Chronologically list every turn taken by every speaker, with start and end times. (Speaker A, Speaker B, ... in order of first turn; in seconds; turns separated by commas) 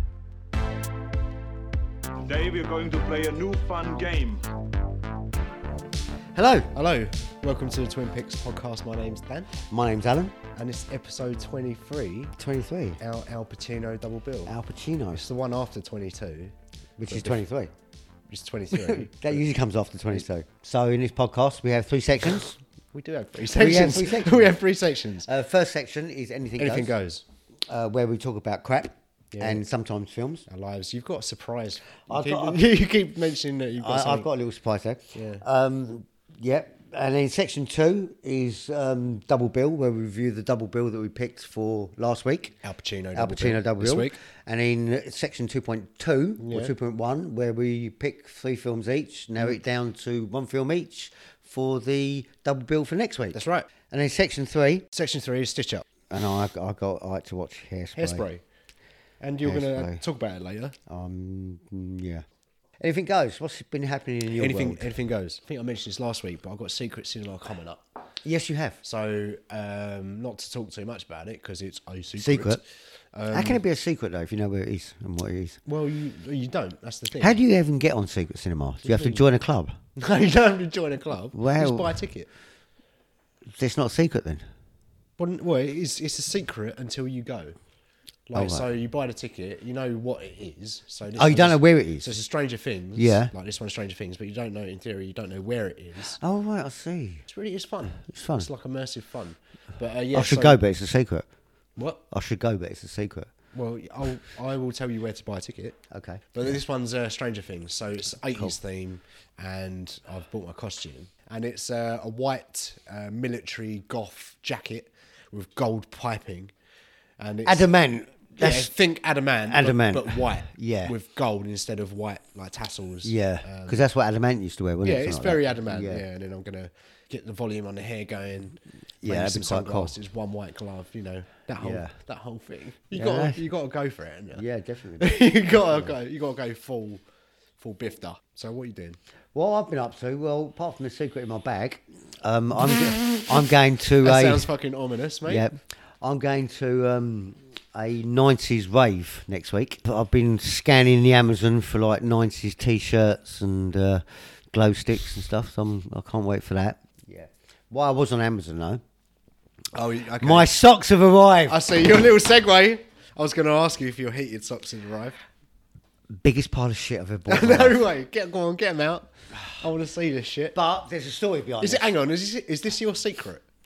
Speaker A: 2.2-4.5, Speaker B: 6.3-6.7, Speaker C: 6.7-9.5, Speaker B: 9.7-10.4, Speaker C: 10.6-12.3, Speaker B: 12.4-13.0, Speaker C: 13.0-14.5, Speaker B: 14.5-15.2, Speaker C: 15.2-16.6, Speaker B: 17.0-17.7, Speaker C: 17.1-17.4, Speaker C: 18.3-19.4, Speaker B: 18.7-22.6, Speaker C: 22.9-25.3, Speaker B: 23.5-24.6, Speaker B: 25.2-26.9, Speaker C: 26.6-27.2, Speaker B: 27.7-30.5, Speaker C: 29.3-29.6, Speaker C: 30.5-34.3, Speaker B: 32.1-32.6, Speaker B: 33.8-42.6, Speaker C: 35.1-35.4, Speaker C: 42.6-44.2, Speaker B: 43.1-54.9, Speaker C: 46.4-46.7, Speaker C: 53.3-53.7, Speaker C: 54.9-55.9, Speaker B: 56.1-58.3, Speaker C: 58.0-58.4, Speaker C: 59.2-60.8, Speaker B: 59.5-60.0, Speaker B: 60.9-62.2, Speaker B: 62.8-64.9, Speaker C: 64.3-67.8, Speaker B: 68.2-68.8, Speaker C: 68.8-72.6, Speaker B: 72.2-72.6, Speaker C: 73.1-73.6, Speaker B: 73.3-75.6, Speaker C: 75.7-77.4, Speaker B: 77.2-79.8, Speaker C: 78.8-79.3, Speaker C: 80.0-82.3, Speaker B: 81.3-82.0, Speaker B: 83.5-84.5, Speaker C: 85.2-87.6, Speaker C: 88.3-96.2, Speaker B: 88.3-88.7, Speaker B: 91.2-92.1, Speaker B: 93.0-93.3, Speaker B: 96.2-97.2, Speaker C: 97.3-100.6, Speaker B: 98.0-98.5, Speaker B: 100.1-101.3, Speaker B: 102.1-103.3, Speaker C: 103.5-105.8, Speaker B: 105.9-106.2, Speaker C: 106.3-116.5, Speaker C: 117.2-117.7, Speaker B: 117.5-118.7, Speaker C: 118.4-123.8, Speaker B: 119.5-120.9, Speaker B: 123.0-126.0, Speaker C: 124.8-134.4, Speaker B: 129.0-129.9, Speaker B: 131.6-131.9, Speaker B: 132.9-133.4, Speaker B: 134.3-135.9, Speaker C: 135.0-137.0, Speaker C: 137.6-139.0, Speaker B: 139.3-144.5, Speaker C: 144.0-145.5, Speaker B: 145.3-158.8, Speaker C: 159.7-160.5, Speaker B: 160.2-161.6, Speaker C: 161.5-165.2, Speaker B: 166.1-167.8, Speaker C: 167.3-170.6, Speaker B: 170.5-171.9, Speaker C: 171.6-173.4